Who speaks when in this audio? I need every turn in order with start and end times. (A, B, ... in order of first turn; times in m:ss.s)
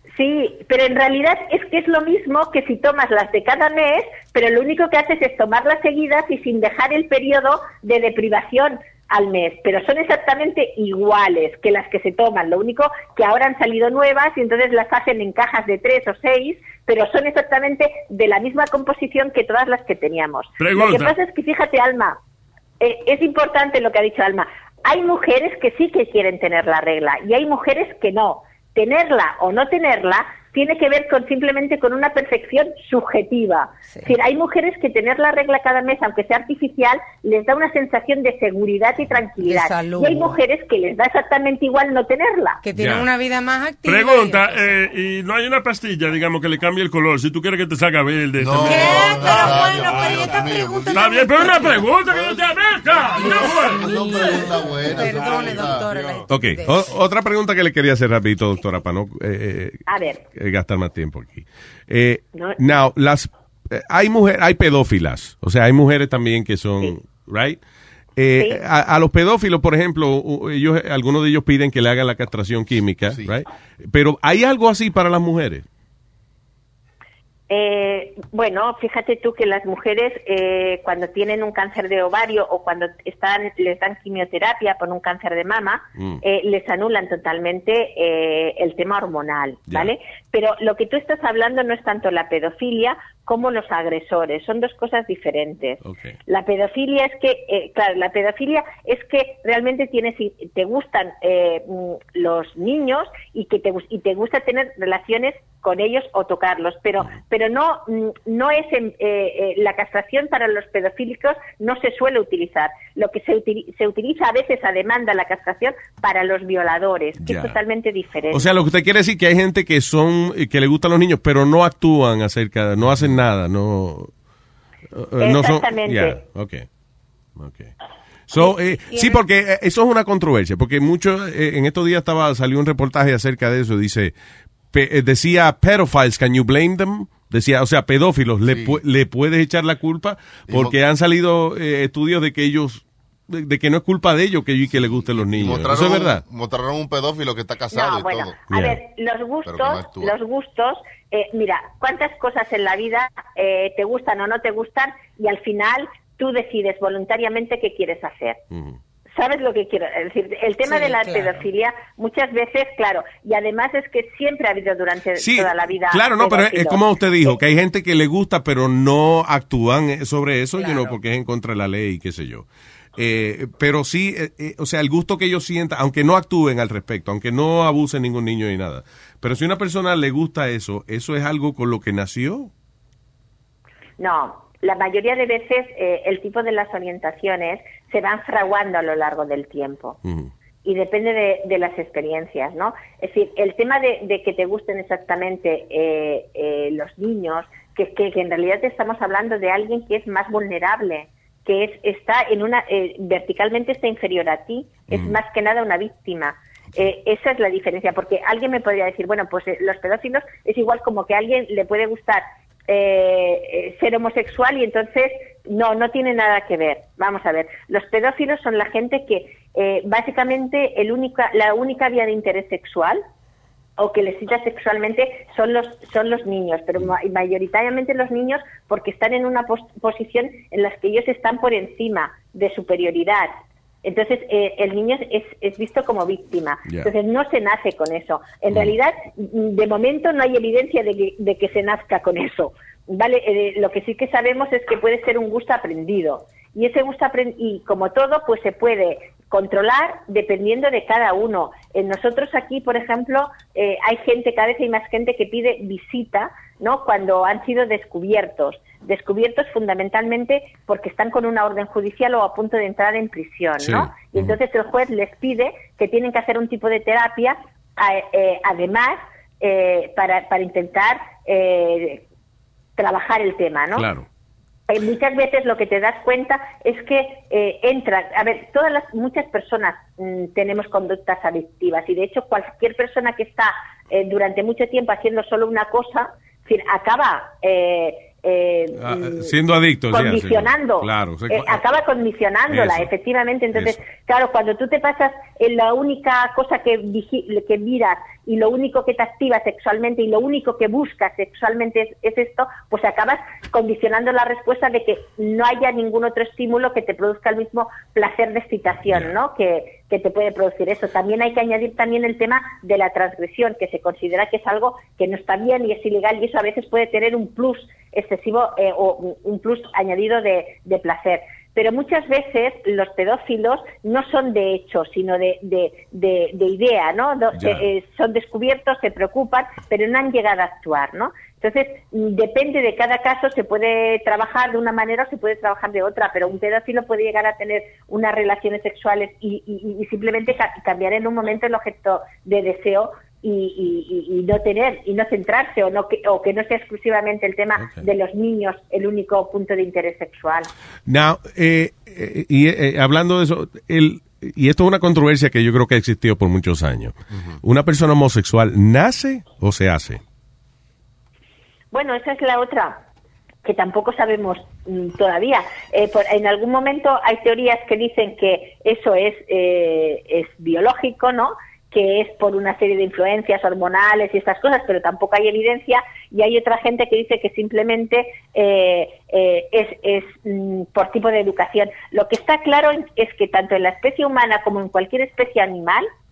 0:00.1-0:22.2 A
0:20.6-0:21.1 B
0:22.8-0:42.6 A
0:39.4-0:40.4 C
0:42.6-0:44.7 C
0:42.8-0:43.1 D
0:43.8-0:49.5 B
0:48.4-0:55.9 E
0:48.7-0:51.1 C
0:50.9-0:53.8 B
0:53.2-0:56.9 C
0:56.3-0:59.8 D
0:59.9-1:00.2 A
1:00.3-1:07.6 D
1:02.3-1:02.6 A
1:08.2-1:15.6 D
1:17.5-1:58.5 A
1:26.0-1:26.2 D
1:35.8-1:36.2 D
1:57.2-1:57.6 D
1:58.3-2:04.1 D
2:04.9-2:06.7 D
2:05.2-2:06.2 A
2:07.4-2:07.7 D
2:08.3-2:14.1 D
2:08.3-2:09.2 C
2:14.7-2:26.2 D
2:18.5-2:18.8 E
2:20.5-2:20.8 E
2:24.7-2:28.4 E
2:27.7-2:38.4 A
2:28.5-2:28.8 D
2:29.4-2:30.1 E
2:38.5-2:38.8 D
2:39.1-2:46.8 A
2:40.7-2:41.4 C
2:45.2-3:02.5 D
2:50.6-2:50.9 C
3:04.0-3:10.0 A
3:10.0-3:10.3 D
3:10.6-3:43.0 A
3:24.9-3:25.2 D
3:43.8-3:53.3 A
3:53.8-4:32.0 A
4:23.6-4:24.3 D
4:32.8-4:33.8 A
4:33.7-4:34.0 D
4:34.7-4:49.3 A
4:48.8-4:51.6 D
4:49.9-5:50.5 A
4:52.5-4:52.9 D
4:53.5-4:53.8 D
5:08.9-5:09.1 D
5:27.3-5:27.6 D
5:47.6-5:47.8 D
5:50.9-6:00.0 D
5:57.1-5:57.4 E
6:01.7-6:02.8 A
6:03.4-6:25.9 A